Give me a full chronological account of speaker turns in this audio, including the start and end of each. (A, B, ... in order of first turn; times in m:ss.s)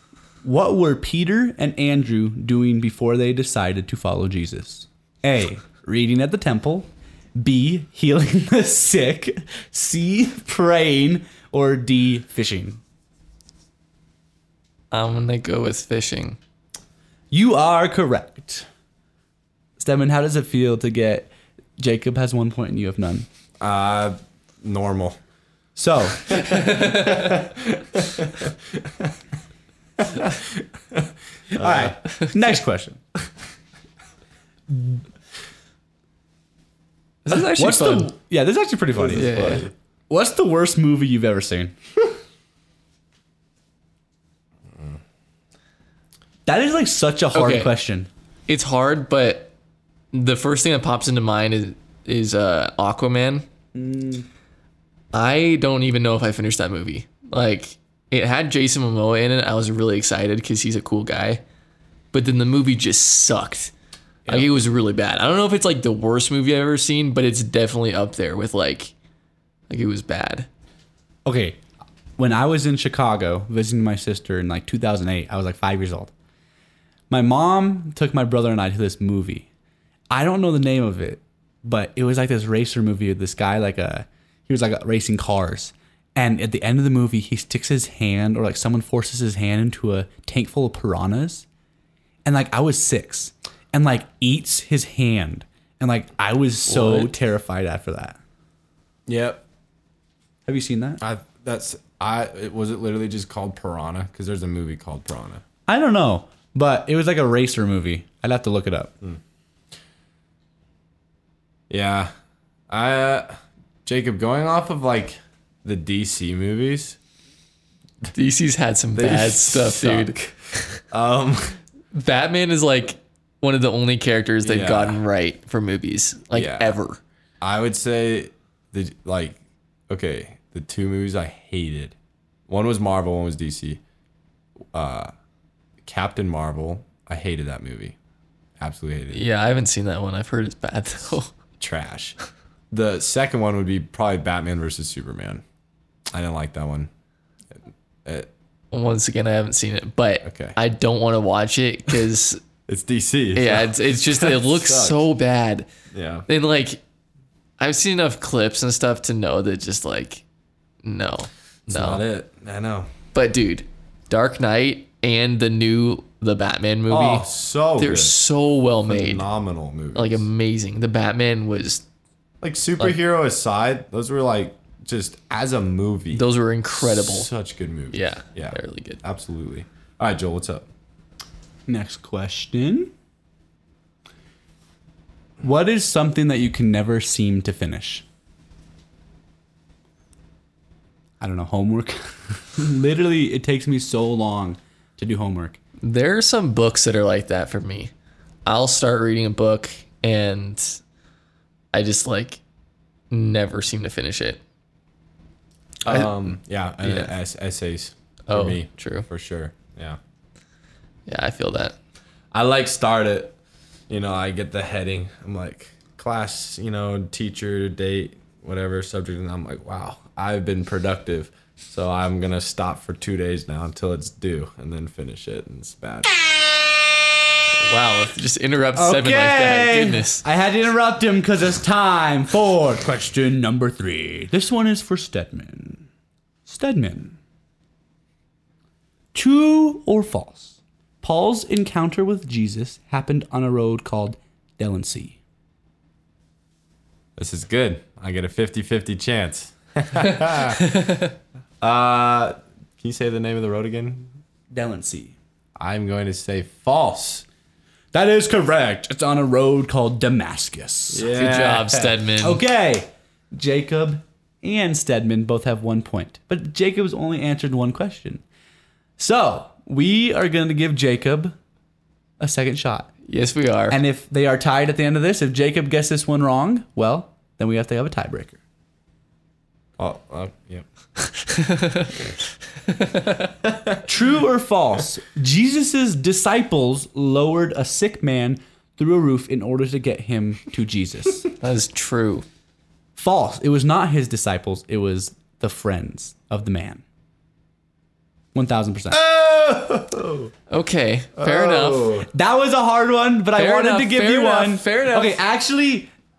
0:00.4-0:12.8 A
0:14.9-0:16.4 B
0:17.3-0:18.7 A
0:19.8-0:23.3 A
0:23.6-0:25.2 C
0:25.8-0:26.5 A
0:26.3-0:29.1 C
0:30.0-0:31.9 C
0:31.6-0:33.0 A
0:34.7-0:35.0 A
0:37.2-0:38.1 B
0:37.3-0:41.8 A
0:39.0-0:39.7 C
0:39.2-0:39.7 B
0:46.5-0:48.1 A
0:47.4-0:47.7 B
0:48.5-0:49.5 B
0:50.1-0:53.5 B
0:53.8-0:54.2 A
0:55.1-1:01.4 B
1:02.1-1:03.7 B
1:04.3-1:08.9 B
1:09.7-1:10.5 B
1:11.2-1:11.6 A
1:12.2-1:16.1 A
1:17.1-1:19.5 A
1:20.1-1:31.5 A
1:32.2-1:38.2 A
1:36.7-1:37.1 B
1:39.1-1:39.4 C
1:40.5-1:41.0 A
1:41.0-1:45.4 C
1:45.7-1:48.9 A
1:51.7-1:52.1 C
1:52.7-1:57.0 C
1:58.1-2:00.8 B
1:59.0-2:00.2 C
2:00.9-2:01.6 C
2:01.9-2:07.0 B
2:04.4-2:05.0 C
2:06.3-2:06.8 C
2:07.4-2:09.4 C
2:09.9-2:12.0 C
2:12.5-2:13.8 C
2:14.7-2:15.1 C
2:15.8-2:18.0 C
2:18.6-2:19.2 C
2:19.1-2:21.3 B
2:21.6-2:22.2 C
2:22.7-2:25.4 C
2:26.1-2:26.9 C
2:28.7-2:32.4 B
2:30.2-2:30.6 C
2:32.7-2:35.0 C
2:33.4-2:35.7 B
2:35.9-2:36.2 C
2:36.3-2:36.8 B
2:37.6-2:40.2 B
2:40.8-2:42.0 B
2:41.7-2:42.9 C
2:43.1-2:47.3 B
2:46.9-2:48.2 C
2:47.8-2:49.2 B
2:48.9-2:50.3 C
2:50.0-2:51.8 B
2:52.4-3:00.7 C
2:56.1-2:57.3 B
2:57.9-2:59.0 B
3:01.7-3:02.9 A
3:05.4-3:08.0 A
3:11.2-3:15.6 A
3:15.8-3:17.9 B
3:18.5-3:20.8 B
3:21.7-3:22.4 B
3:23.1-3:24.4 B
3:25.8-3:30.0 C
3:25.9-3:26.2 B
3:26.8-3:27.1 B
3:28.3-3:29.0 B
3:31.1-3:31.8 B
3:32.3-3:33.4 C
3:33.9-3:46.1 C
3:47.6-3:50.2 B
3:48.8-3:55.8 A
3:56.5-3:57.2 A
3:59.1-4:05.2 A
4:07.2-4:10.6 C
4:10.8-4:11.1 B
4:11.6-4:14.1 C
4:14.5-4:15.2 A
4:15.6-4:17.2 C
4:17.9-4:21.1 A
4:20.9-4:21.9 C
4:21.1-4:22.4 B
4:22.2-4:28.2 A
4:29.0-4:31.3 A
4:32.2-4:32.9 A
4:33.0-4:33.8 B
4:33.7-4:38.4 A
4:39.8-4:40.6 C
4:41.2-4:41.9 B
4:42.7-4:43.3 B
4:43.9-4:51.2 A
4:51.4-4:52.2 B
4:53.0-4:56.8 A
4:58.4-4:59.0 A
4:58.9-5:00.3 C
5:00.5-5:02.0 B
5:01.2-5:02.1 C
5:02.1-5:05.9 A
5:03.4-5:05.2 B